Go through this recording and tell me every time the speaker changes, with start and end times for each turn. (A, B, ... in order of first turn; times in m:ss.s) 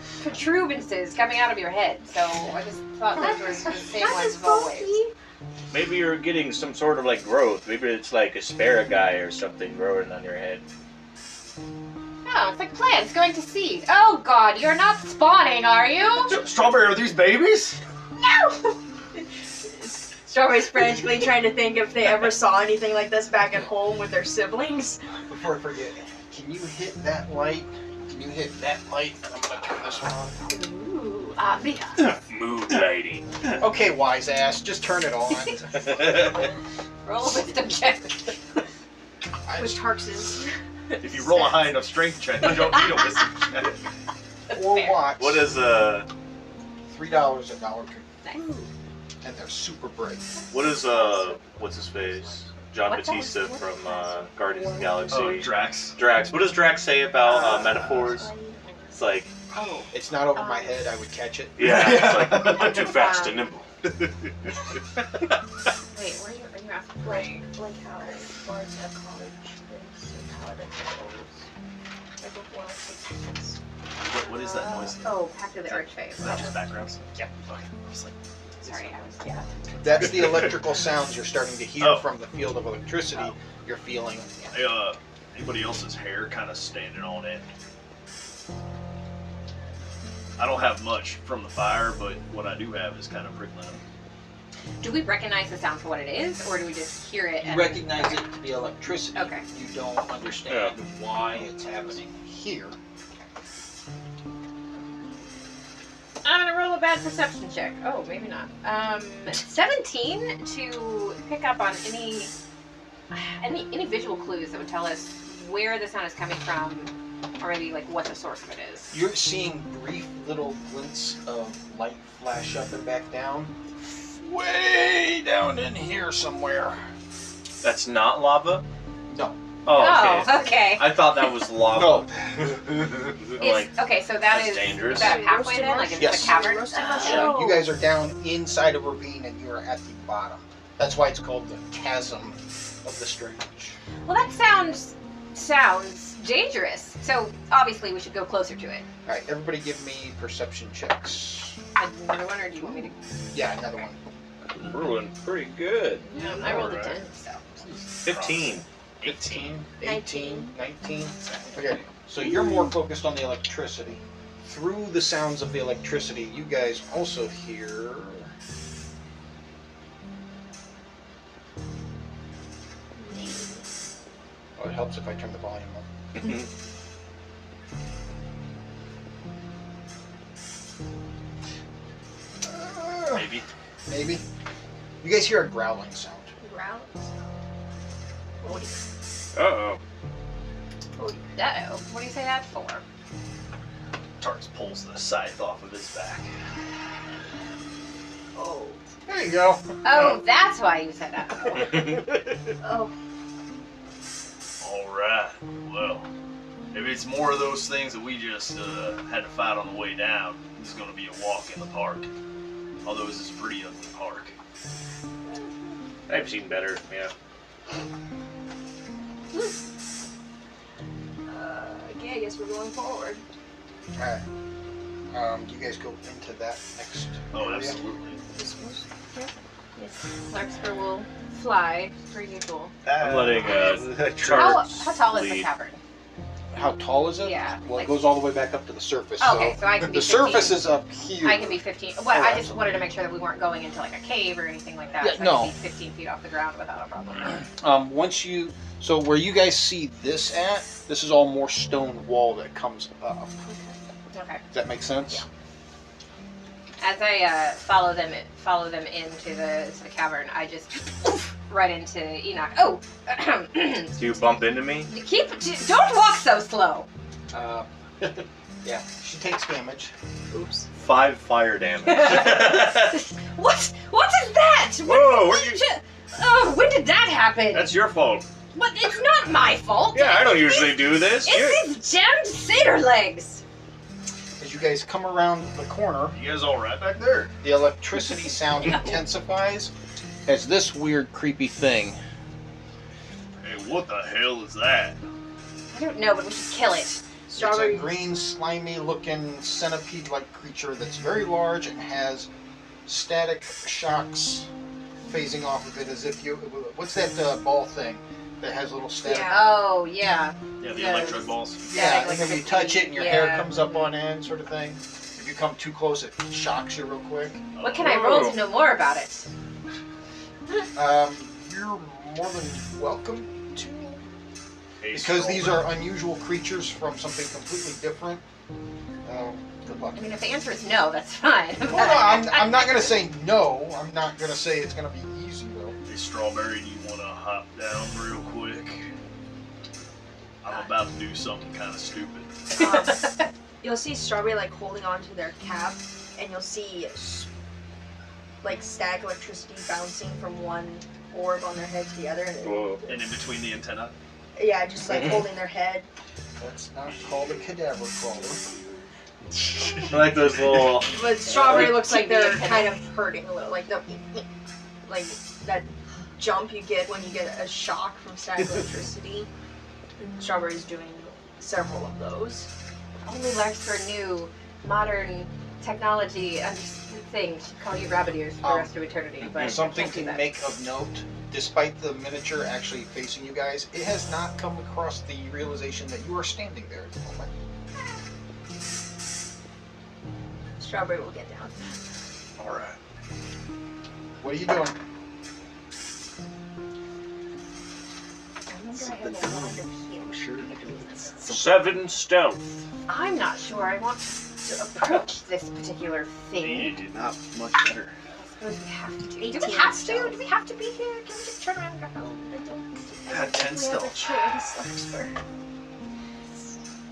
0:00.2-0:05.0 A
0:03.2-0:05.1 B
0:05.7-0:10.6 C
0:12.2-0:16.5 A
0:16.2-0:17.8 D
0:18.2-0:25.0 B
0:25.3-0:30.4 E
0:30.5-0:32.2 A
0:32.0-0:33.3 C
0:33.5-0:36.0 E
0:37.0-0:38.6 A
0:39.5-0:39.8 E
0:39.5-0:40.6 B
0:41.0-0:43.8 D
0:44.5-0:45.5 E
0:44.5-0:45.0 A
0:45.2-0:46.1 C
0:46.9-0:48.1 E
0:48.3-0:48.7 B
0:49.2-0:50.3 E
0:50.4-0:52.3 B
0:50.5-0:58.3 C
0:52.8-0:53.7 A
0:53.4-0:55.4 B
0:55.1-0:56.0 D
0:57.2-0:59.0 B
0:57.6-0:57.9 D
0:58.9-0:59.3 C
0:59.6-0:59.9 D
0:59.9-1:01.8 E
1:00.4-1:00.8 A
1:01.6-1:03.7 C
1:01.8-1:02.7 D
1:02.7-1:03.4 A
1:05.9-1:07.5 A
1:07.0-1:11.4 B
1:12.2-1:13.6 B
1:14.0-1:19.0 D
1:14.5-1:16.6 A
1:18.6-1:19.4 A
1:19.7-1:20.5 D
1:19.8-1:24.3 E
1:21.8-1:22.1 D
1:24.5-1:27.4 D
1:30.4-1:33.8 D
1:34.8-1:38.2 A
1:37.4-1:42.8 E
1:39.2-1:39.4 A
1:40.5-1:40.8 C
1:46.2-1:52.3 A
1:53.1-1:59.0 A
1:58.9-2:06.8 E
2:07.6-2:08.6 C
2:09.1-2:09.4 E
2:09.6-2:12.5 C
2:09.7-2:11.0 A
2:11.7-2:12.6 E
2:13.3-2:15.2 C
2:13.4-2:17.3 A
2:14.9-2:17.7 B
2:16.0-2:23.8 E
2:17.0-2:17.3 C
2:24.1-2:28.9 A
2:29.0-2:31.6 E
2:31.8-2:33.0 A
2:33.3-2:34.0 E
2:34.5-2:36.1 C
2:36.1-2:36.5 B
2:36.1-2:37.7 A
2:36.2-2:37.0 D
2:37.6-2:39.6 D
2:38.0-2:38.6 C
2:39.0-2:48.3 E
2:39.8-2:40.6 B
2:53.0-2:53.6 B
2:54.6-2:55.9 E
3:02.4-3:04.2 E
3:03.1-3:03.5 D
3:05.0-3:06.3 E
3:06.4-3:07.1 B
3:08.4-3:08.8 B
3:09.3-3:09.8 C
3:11.0-3:11.3 B
3:11.4-3:12.8 A
3:14.2-3:16.3 D
3:18.4-3:18.8 B
3:19.1-3:19.6 E
3:19.8-3:21.8 A
3:22.6-3:22.9 B
3:24.6-3:26.1 D
3:26.7-3:32.1 D
3:32.8-3:34.3 D
3:36.1-3:37.1 C
3:41.3-3:43.2 B
3:44.0-3:44.2 E
3:45.1-3:47.8 E
3:47.3-3:48.2 D
3:48.3-3:48.9 B
3:49.1-3:52.7 A
3:52.8-3:54.6 D
3:53.0-3:55.5 C
3:54.3-3:55.8 A
3:56.5-4:02.9 E
3:57.2-3:58.1 A
3:59.2-4:00.7 A
4:01.2-4:07.4 A
4:05.0-4:05.5 E
4:07.6-4:13.4 E
4:13.4-4:13.7 B
4:14.1-4:14.4 A
4:14.5-4:15.2 E
4:16.8-4:24.2 A
4:24.0-4:24.9 C
4:24.9-4:26.9 A
4:27.3-4:29.9 E
4:30.3-4:30.7 B
4:30.8-4:33.0 C
4:31.9-4:37.8 A
4:34.8-4:35.6 C
4:37.5-4:38.2 C
4:38.5-4:43.4 A
4:39.9-4:41.7 C
4:44.4-4:46.2 E
4:46.1-4:47.3 D
4:47.4-4:49.7 E
4:50.3-4:52.0 E
4:53.4-4:55.0 D
4:55.7-4:57.0 A
4:57.3-4:58.0 B
4:57.3-5:02.3 E
5:02.9-5:04.5 E
5:05.0-5:09.4 E
5:09.0-5:09.4 B
5:09.3-5:13.9 A
5:10.6-5:11.7 D
5:11.7-5:17.4 E
5:17.6-5:18.2 D
5:17.6-5:19.3 A
5:17.8-5:18.4 C
5:20.8-5:24.0 E
5:24.8-5:25.7 D
5:24.9-5:28.2 E
5:29.0-5:30.2 E
5:29.9-5:33.0 A
5:31.6-5:35.8 E
5:35.9-5:38.9 D
5:40.4-5:42.3 D
5:42.6-5:47.3 B
5:48.4-5:53.1 B
5:52.4-5:52.8 C
5:52.9-5:53.9 D
5:54.4-5:55.9 B
5:56.4-5:58.4 E
5:59.8-6:01.8 C
6:00.8-6:04.2 B
6:01.3-6:02.8 A
6:04.8-6:09.3 B
6:10.0-6:12.5 B
6:13.0-6:20.3 A
6:18.4-6:18.7 E
6:19.2-6:19.6 C
6:19.4-6:27.3 E
6:30.6-6:31.6 B
6:32.4-6:32.8 C
6:34.2-6:34.8 E
6:38.5-6:39.3 A
6:38.7-6:41.4 B
6:38.8-6:41.6 D
6:41.3-6:42.4 C
6:42.9-6:46.8 A
6:46.4-6:47.9 D
6:48.2-6:52.2 A
6:49.2-6:50.2 B
6:52.1-6:55.1 B
6:53.1-6:54.3 D